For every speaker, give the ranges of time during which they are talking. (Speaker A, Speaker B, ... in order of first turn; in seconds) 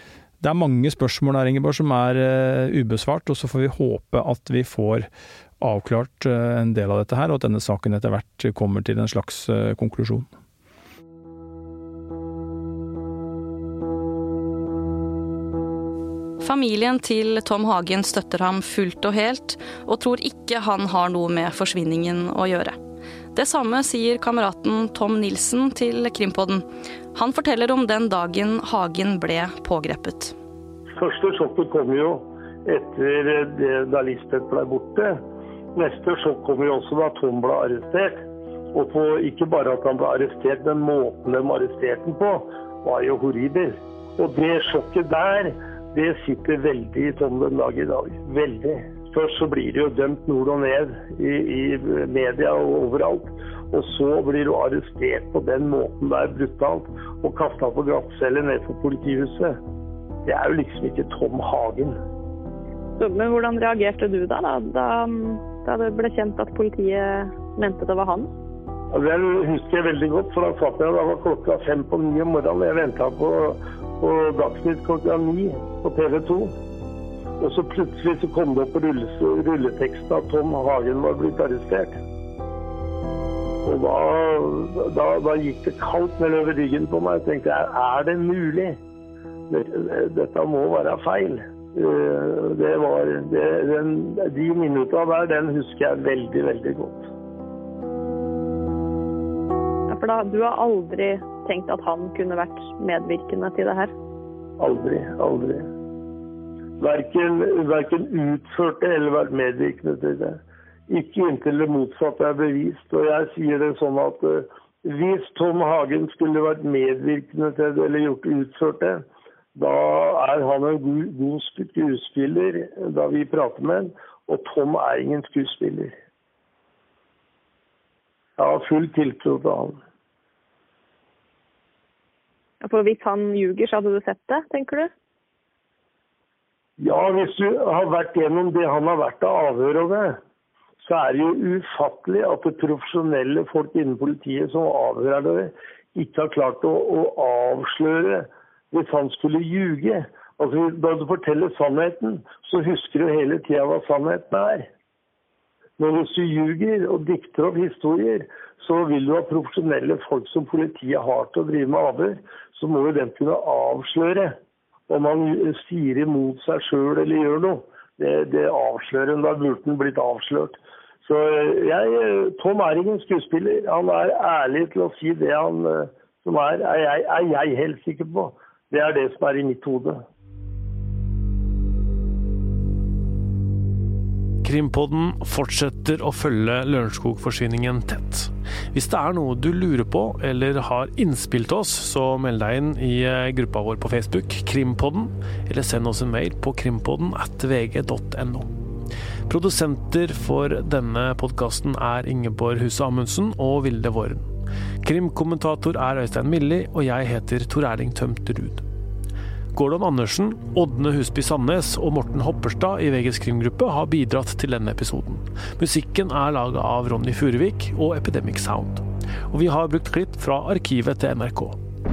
Speaker A: 0.4-5.1, 5.6-10.3
Speaker B: 16.4-22.8, 23.3-30.3
Speaker C: 30.9-35.2, 35.7-38.2, 38.7-59.6, 60.2-62.0, 68.9-76.5, 77.4-82.0, 83.6-88.8, 89.5-97.1, 104.6-105.7, 106.8-119.0, 119.5-125.9, 128.4-129.8, 136.8-140.2, 140.8-154.7, 155.8-164.3, 164.9-180.0
Speaker D: 63.0-68.3, 99.9-103.9, 132.6-134.9
Speaker E: 184.4-198.5, 199.3-204.3, 204.8-208.6, 209.5-221.6